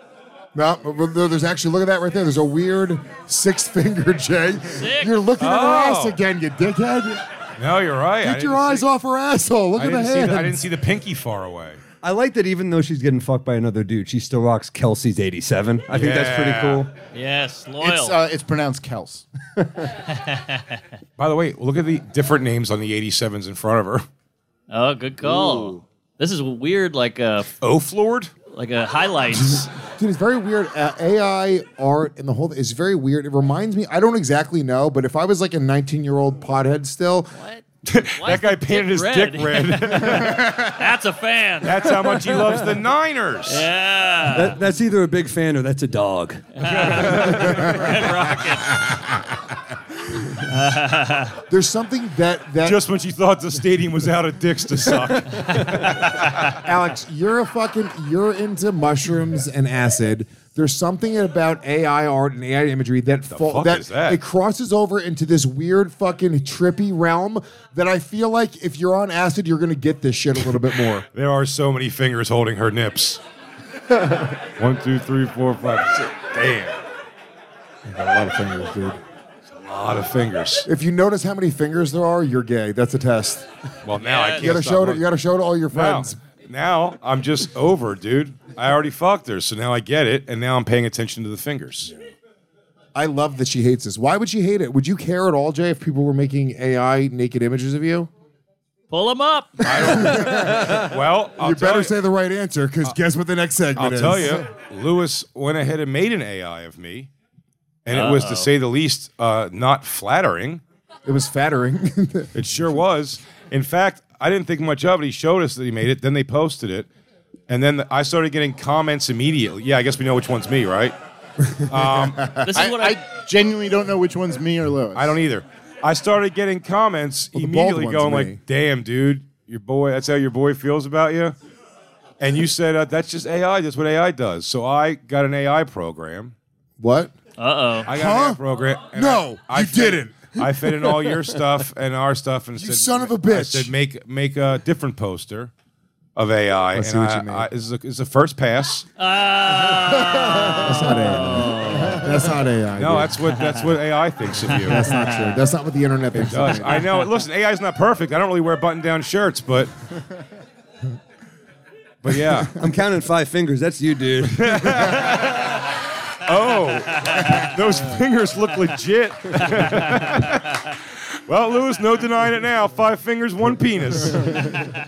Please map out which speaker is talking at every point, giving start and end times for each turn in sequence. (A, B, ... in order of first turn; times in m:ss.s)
0:00.5-0:07.2 A
0:04.7-0:05.1 B
0:05.4-0:06.2 C
0:07.6-0:08.8 C
0:08.2-0:10.6 A
0:09.8-0:11.8 C
0:12.0-0:16.9 D
0:15.9-0:16.8 C
0:17.1-0:18.2 B
0:17.8-0:19.2 E
0:20.2-0:20.6 B
0:21.2-0:24.0 C
0:24.7-0:27.5 B
0:27.6-0:28.3 C
0:28.5-0:29.7 B
0:29.3-0:37.3 A
0:37.3-0:37.6 B
0:37.8-0:40.6 C
0:38.2-0:41.9 B
0:41.6-0:43.6 C
0:43.5-0:44.6 B
0:44.3-0:46.4 D
0:46.6-0:48.8 B
0:46.6-0:48.2 C
0:50.5-0:51.3 B
0:51.5-0:52.8 A
0:52.6-0:56.6 C
0:56.6-1:11.0 A
1:03.3-1:04.2 C
1:11.1-1:13.2 C
1:14.6-1:16.8 C
1:17.8-1:19.0 A
1:19.6-1:20.7 C
1:20.6-1:23.5 A
1:23.8-1:25.0 C
1:24.0-1:24.5 B
1:24.4-1:26.2 A
1:25.7-1:31.9 C
1:32.9-1:38.1 A
1:38.9-1:39.7 B
1:39.6-1:41.9 C
1:39.7-1:44.4 A
1:43.7-1:47.1 C
1:47.8-1:50.6 C
1:47.9-1:48.5 B
1:51.0-1:52.4 A
1:52.3-1:56.9 C
1:57.5-2:00.9 C
2:01.6-2:02.3 C
2:01.7-2:02.2 A
2:02.4-2:03.0 B
2:02.5-2:05.2 E
2:04.9-2:11.3 C
2:07.3-2:08.4 A
2:12.2-2:16.3 C
2:16.8-2:17.1 A
2:17.4-2:17.9 B
2:17.9-2:25.5 C
2:17.9-2:18.4 A
2:18.9-2:20.4 A
2:22.6-2:23.7 A
2:26.2-2:28.9 C
2:26.7-2:27.5 A
2:29.0-2:32.2 B
2:29.9-2:33.1 A
2:32.8-2:34.8 C
2:34.6-2:36.8 A
2:34.8-2:35.4 B
2:36.1-2:39.7 C
2:36.8-2:37.1 B
2:42.0-2:42.6 C
2:42.5-2:45.0 D
2:44.3-2:45.6 C
2:46.2-2:54.6 C
2:49.5-2:50.1 B